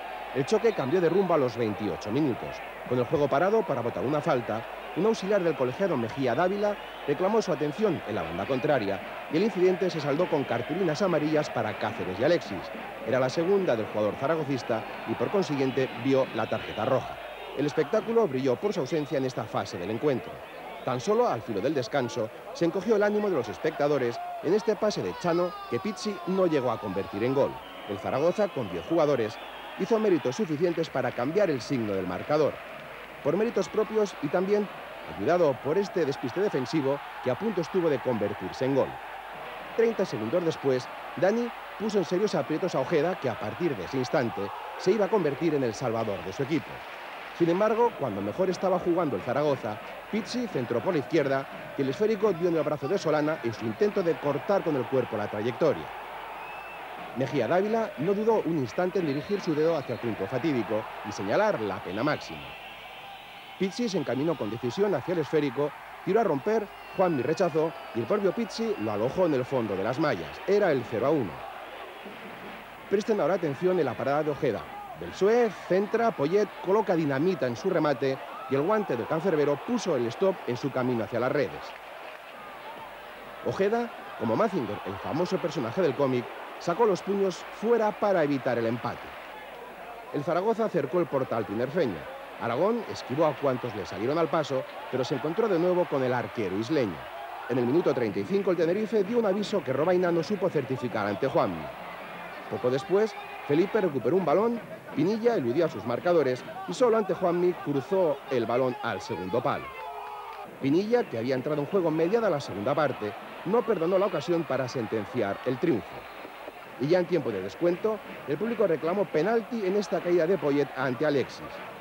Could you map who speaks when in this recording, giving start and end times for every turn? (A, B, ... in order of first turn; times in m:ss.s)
0:00.3-0:32.6 A
0:33.2-0:39.0 A
0:39.8-0:55.9 A
0:57.1-1:02.6 A
1:03.6-1:11.4 A
1:12.9-1:21.8 A
1:23.4-1:29.2 A
1:30.1-1:41.7 A
1:42.5-1:49.7 A
1:50.6-1:56.1 A
1:56.8-2:01.6 A